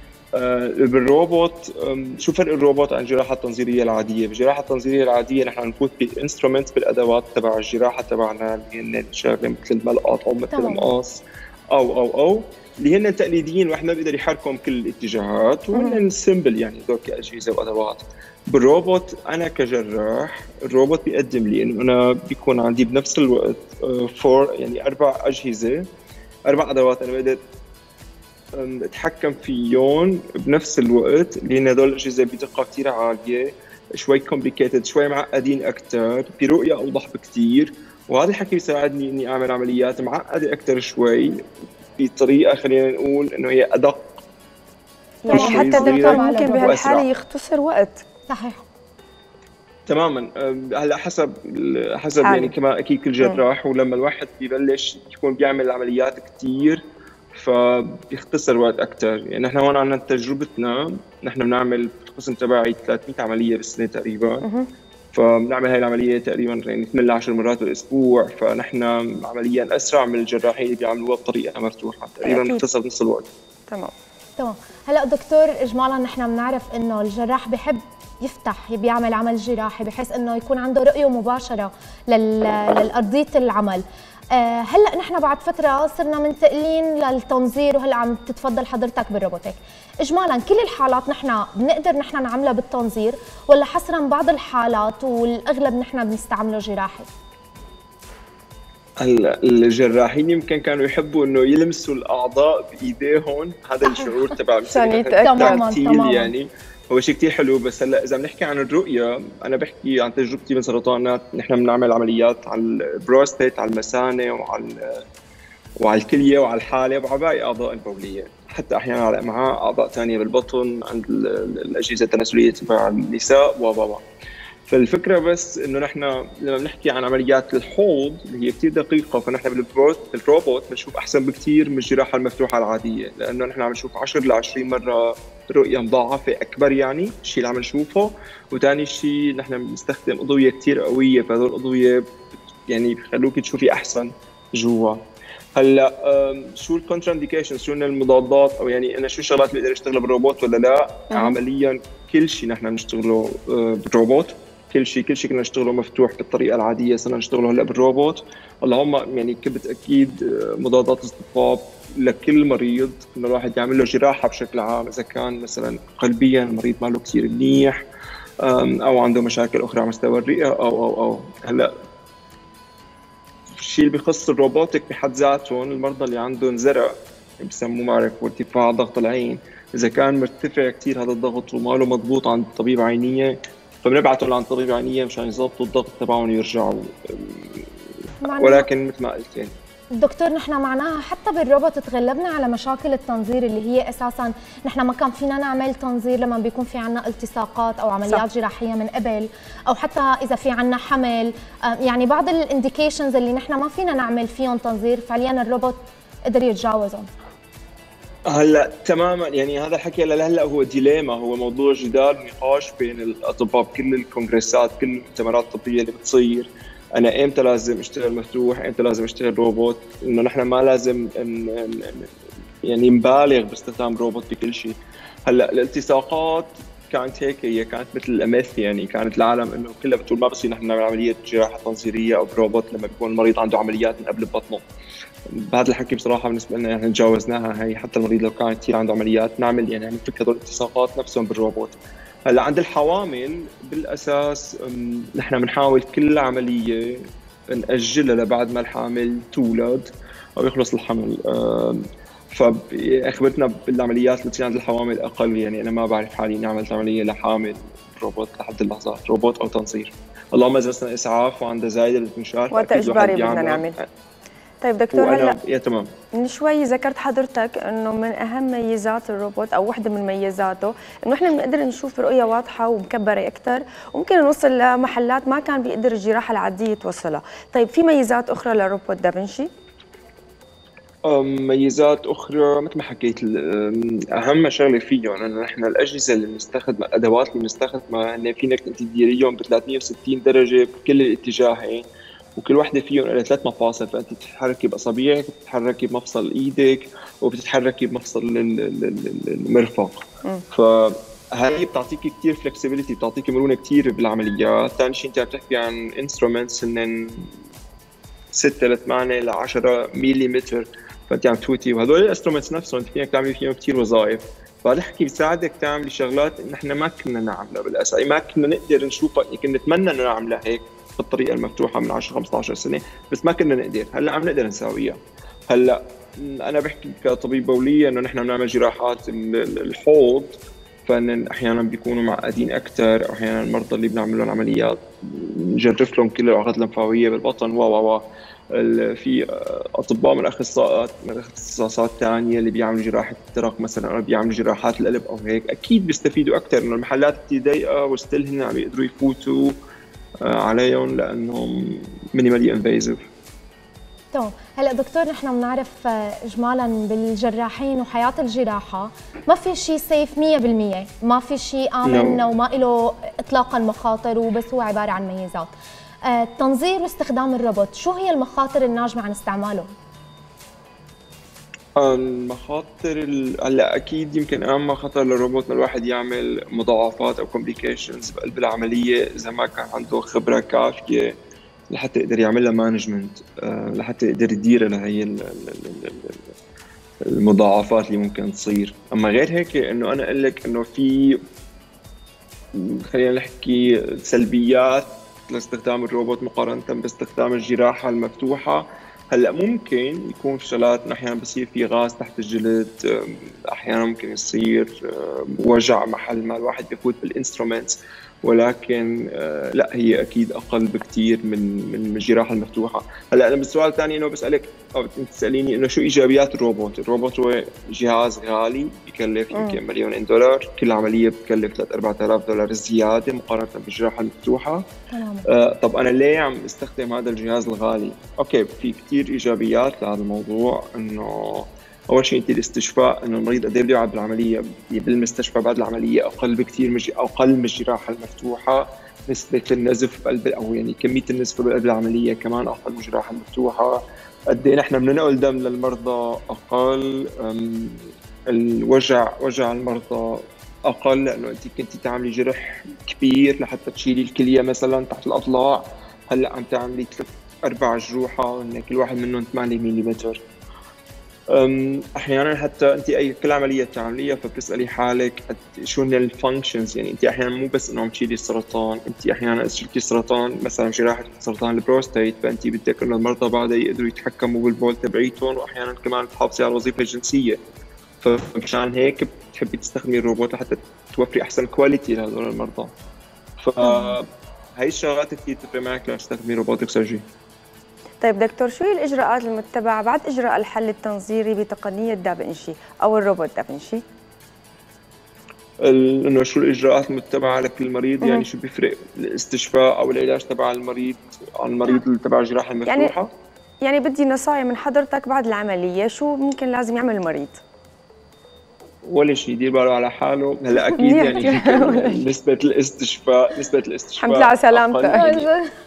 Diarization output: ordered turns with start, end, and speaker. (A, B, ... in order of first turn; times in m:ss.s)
0:00.3-0:25.8 A
0:10.5-0:10.9 B
0:15.7-0:16.0 C
0:26.5-0:27.4 A
0:28.5-0:41.4 A
0:42.0-0:44.1 A
0:45.2-0:48.0 C
0:45.3-0:47.1 A
0:45.3-0:46.8 B
0:48.3-0:48.6 B
0:49.9-0:56.8 A
0:52.2-0:52.5 C
0:57.3-1:04.4 A
1:04.4-1:04.7 C
1:05.1-1:13.3 A
1:12.2-1:12.6 C
1:14.4-1:37.1 B
1:39.0-1:55.0 A
1:44.6-1:45.6 C
1:45.2-1:46.3 B
1:55.8-2:04.0 A
2:04.7-2:22.0 A
2:22.7-2:25.0 A
2:25.5-2:47.8 A
2:31.1-2:31.4 C
2:48.4-2:51.7 A
2:53.6-3:07.7 A
3:08.2-3:08.7 B
3:08.3-3:09.5 A
3:09.9-3:27.1 B
3:28.3-3:42.1 A
3:42.6-3:54.6 A
3:55.3-4:23.8 A
4:22.5-4:23.8 C
4:24.6-4:25.4 C
4:24.9-4:25.9 A
4:26.2-4:39.5 C
4:41.0-5:07.3 A
5:08.3-5:25.0 A
5:25.5-5:49.5 A
5:50.2-5:53.0 A
5:54.1-6:05.5 B
6:01.8-6:02.2 A
6:06.0-6:09.7 B
6:11.8-6:21.2 A
6:21.7-6:26.2 A
6:27.0-6:31.2 A
6:32.5-7:04.6 A
6:59.3-6:59.6 C
7:04.9-7:05.3 B
7:05.3-7:40.2 A
7:41.3-7:57.4 A
7:58.0-8:02.7 A
8:03.4-8:07.0 A
8:03.6-8:04.0 B
8:08.0-8:13.8 C
8:15.6-8:23.1 A
8:22.6-8:22.9 C
8:23.6-8:27.4 C
8:28.8-8:35.3 A
8:30.7-8:32.1 C
8:34.0-8:35.2 C
8:34.9-8:35.5 B